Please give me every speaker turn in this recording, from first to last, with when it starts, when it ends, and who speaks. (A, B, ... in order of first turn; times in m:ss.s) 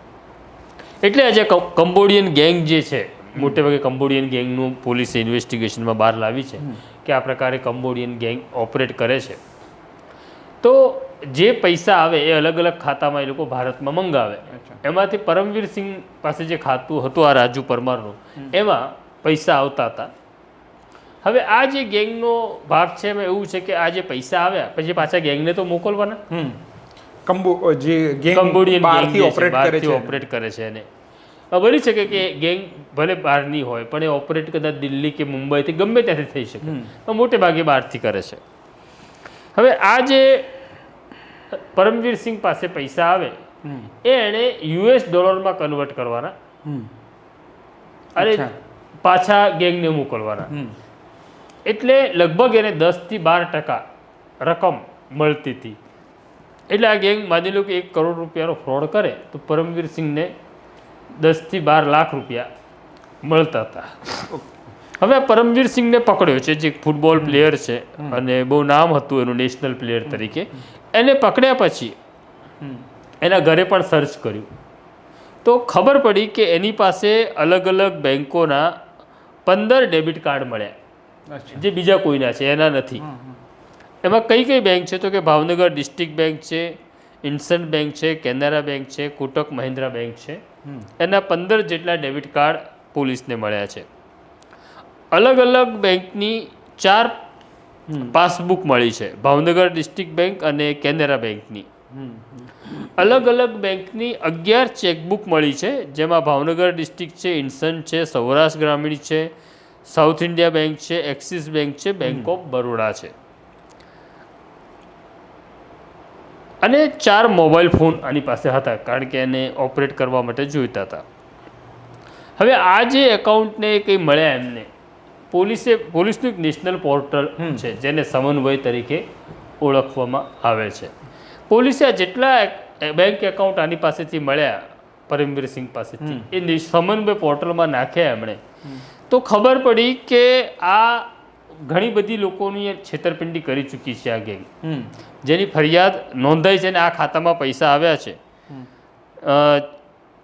0:01.0-0:09.4 A
0:10.6-0:20.1 A
0:14.5-0:14.8 B
0:21.2-0:26.2 A
0:26.3-0:26.6 B
0:27.3-0:30.2 B
0:28.3-0:30.9 A
0:31.5-0:38.4 A
0:36.6-0:36.9 B
0:39.6-0:40.5 A
0:41.5-0:43.4 A
0:43.6-0:43.9 B
0:44.0-0:46.3 A
0:46.6-0:46.9 B
0:48.2-0:48.5 B
0:48.2-0:48.5 A
0:49.0-0:50.5 A
0:50.5-0:50.8 B
0:51.7-0:53.8 A
0:54.4-0:55.8 A
0:56.7-1:00.3 A
1:01.1-1:02.5 A
1:03.2-1:04.3 A
1:04.3-1:04.6 B
1:05.0-1:12.0 A
1:07.2-1:07.4 B
1:10.1-1:10.4 B
1:13.2-1:14.5 A
1:15.4-1:18.8 A
1:19.5-1:20.8 A
1:21.3-1:21.6 B
1:21.5-1:23.0 A
1:23.0-1:23.4 B
1:24.0-1:30.4 A
1:31.0-1:33.9 A
1:35.1-1:37.2 A
1:37.9-1:38.2 B
1:38.0-1:41.7 A
1:41.9-1:42.6 B
1:43.0-1:49.3 A
1:49.9-1:53.1 A
1:52.0-1:52.3 B
1:56.6-2:01.0 A
2:02.4-2:04.7 A
2:05.3-2:09.0 A
2:07.4-2:07.7 B
2:09.6-2:10.9 A
2:11.5-2:18.4 A
2:16.0-2:16.3 B
2:19.1-2:24.5 A
2:24.6-2:24.9 B
2:25.2-2:28.2 A
2:29.2-2:29.7 A